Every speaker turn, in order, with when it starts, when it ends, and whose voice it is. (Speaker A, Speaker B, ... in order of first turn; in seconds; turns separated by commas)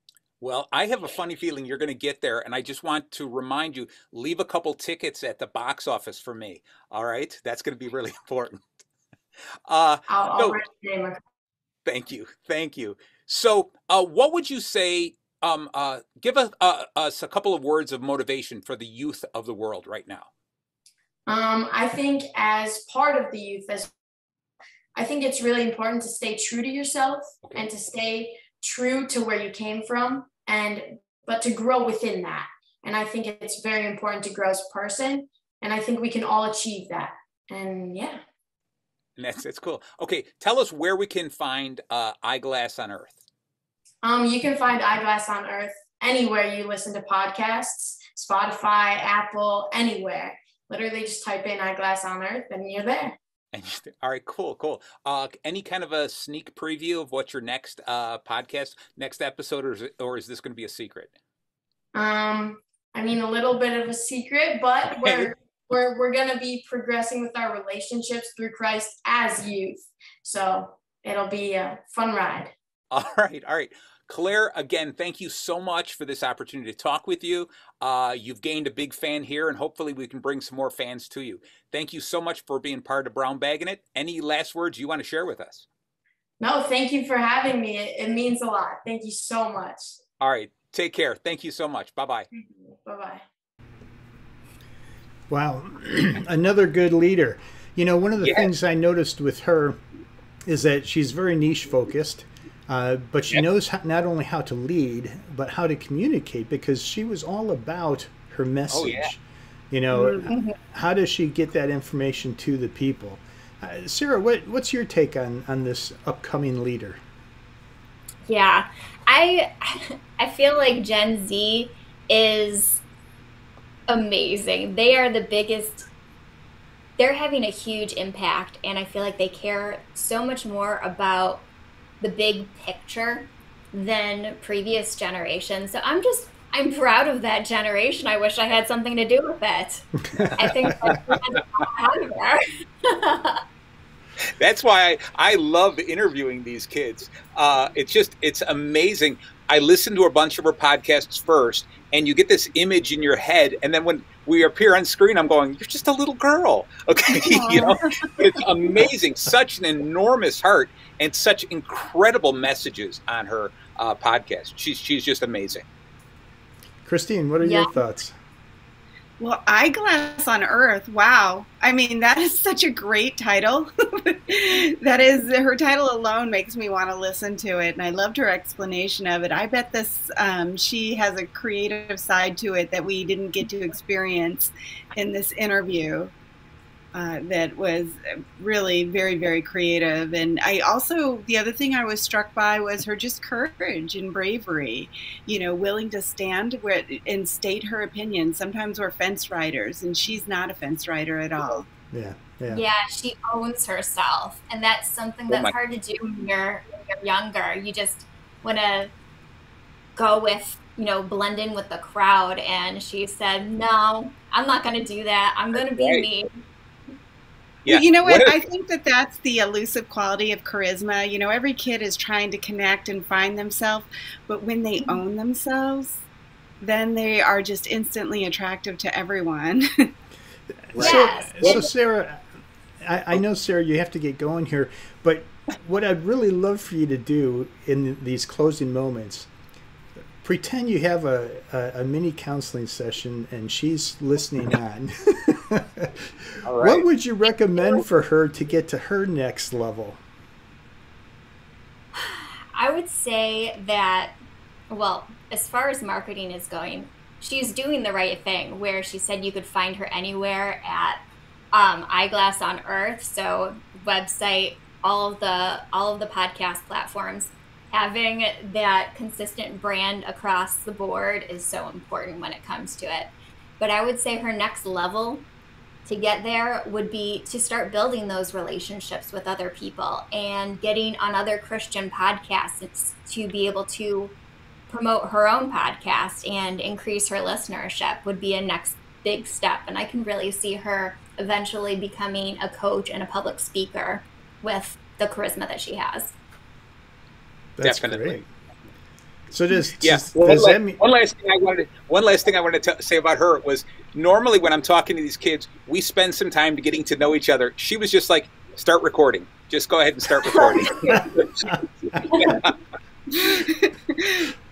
Speaker A: 0.4-8.7, Speaker A: 9.7-10.6, Speaker B: 10.1-11.2, Speaker A: 11.8-20.3, Speaker B: 21.3-23.9, Speaker B: 24.9-38.2, Speaker A: 39.2-43.2, Speaker B: 44.0-53.2, Speaker A: 53.5-61.1, Speaker B: 61.9-72.5, Speaker A: 65.0-65.3, Speaker A: 72.9-85.7, Speaker B: 86.4-90.0, Speaker A: 90.2-92.3, Speaker B: 92.3-93.2, Speaker C: 95.3-99.8, Speaker A: 98.2-98.5, Speaker C: 100.5-109.2, Speaker A: 108.7-109.1, Speaker C: 109.7-117.0, Speaker D: 109.9-110.3, Speaker E: 110.3-110.6, Speaker E: 118.2-122.8, Speaker E: 123.9-125.8, Speaker E: 127.0-131.4, Speaker E: 132.0-143.4, Speaker C: 140.0-141.0, Speaker A: 144.4-165.6, Speaker D: 157.2-158.3, Speaker C: 166.8-168.1, Speaker E: 167.4-167.8, Speaker D: 169.2-186.1, Speaker D: 186.9-201.7, Speaker C: 201.9-202.6, Speaker E: 202.5-208.9, Speaker E: 209.9-216.3, Speaker A: 215.6-216.0, Speaker A: 217.6-218.4, Speaker D: 217.7-226.0, Speaker D: 226.6-229.9, Speaker C: 230.7-232.2, Speaker A: 230.7-231.6, Speaker E: 230.8-231.7, Speaker C: 232.8-239.3, Speaker C: 240.2-250.0, Speaker A: 246.4-246.8, Speaker E: 251.9-254.1, Speaker E: 254.7-261.0, Speaker E: 261.5-275.2, Speaker E: 275.9-284.1, Speaker E: 284.7-296.1, Speaker C: 297.6-298.3, Speaker A: 297.6-298.2, Speaker C: 299.3-300.8, Speaker A: 299.8-312.5, Speaker C: 310.9-312.3, Speaker D: 313.2-314.1